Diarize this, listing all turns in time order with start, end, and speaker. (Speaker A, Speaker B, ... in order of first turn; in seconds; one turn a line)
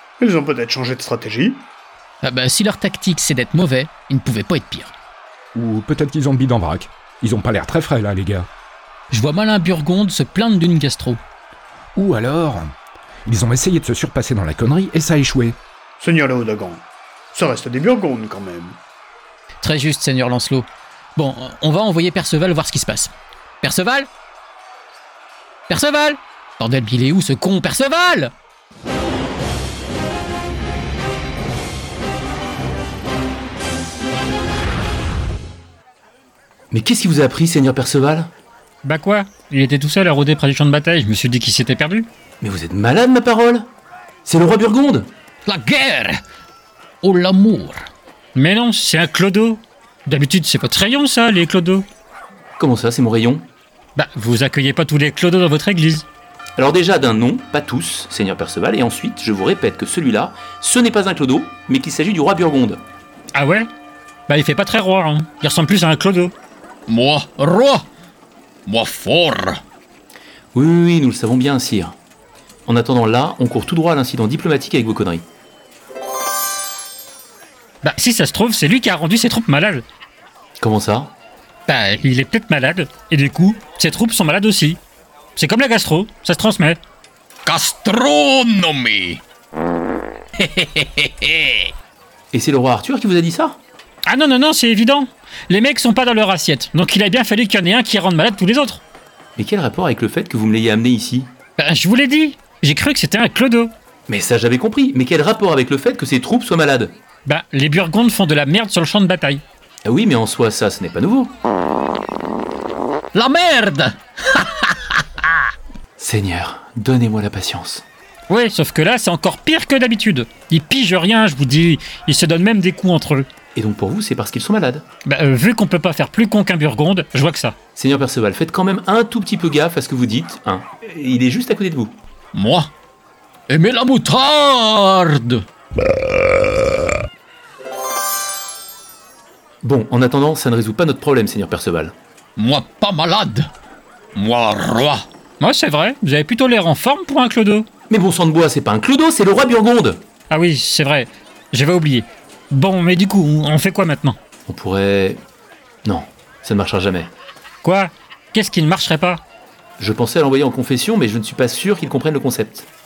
Speaker A: 0.2-1.6
Speaker B: 2.2-4.9
Speaker C: 5.5-8.5
Speaker B: 9.1-11.2
Speaker C: 12.0-12.7
Speaker C: 13.3-15.6
Speaker A: 16.0-18.8
Speaker B: 19.6-24.1
Speaker B: 25.7-28.3
Speaker D: 36.7-38.3
Speaker E: 38.8-42.1
Speaker D: 42.4-43.7
Speaker D: 44.2-45.1
Speaker B: 45.5-46.2
Speaker B: 47.0-47.8
Speaker E: 48.4-51.9
Speaker D: 52.6-53.5
Speaker E: 54.0-56.1
Speaker D: 56.6-62.8
Speaker E: 63.3-63.7
Speaker E: 64.3-66.3
Speaker B: 66.9-67.8
Speaker B: 68.7-69.6
Speaker D: 70.5-72.0
Speaker D: 72.7-75.3
Speaker E: 77.8-79.8
Speaker D: 80.6-81.1
Speaker E: 81.7-84.8
Speaker E: 85.4-86.8
Speaker B: 87.5-89.2
Speaker B: 90.6-91.0
Speaker D: 92.3-93.6
Speaker E: 94.1-98.8
Speaker D: 99.4-101.3
Speaker E: 101.6-103.7
Speaker D: 104.1-107.0
Speaker E: 107.3-109.4
Speaker D: 109.8-111.3
Speaker B: 113.2-114.7
Speaker D: 116.0-117.8
Speaker E: 118.3-123.3
Speaker D: 123.5-124.8
Speaker E: 125.1-127.6
Speaker D: 127.8-132.0
Speaker B: 132.3-132.7
Speaker B: 133.5-135.4
Speaker D: 139.6-141.9
Speaker B: 142.4-143.5
Speaker B: 144.2-145.1
Speaker E: 145.4-147.7
Speaker D: 147.9-150.0
Speaker E: 150.3-154.2
Speaker D: 154.5-155.2
Speaker D: 155.8-157.1
Speaker E: 157.6-159.2
Speaker D: 159.8-162.7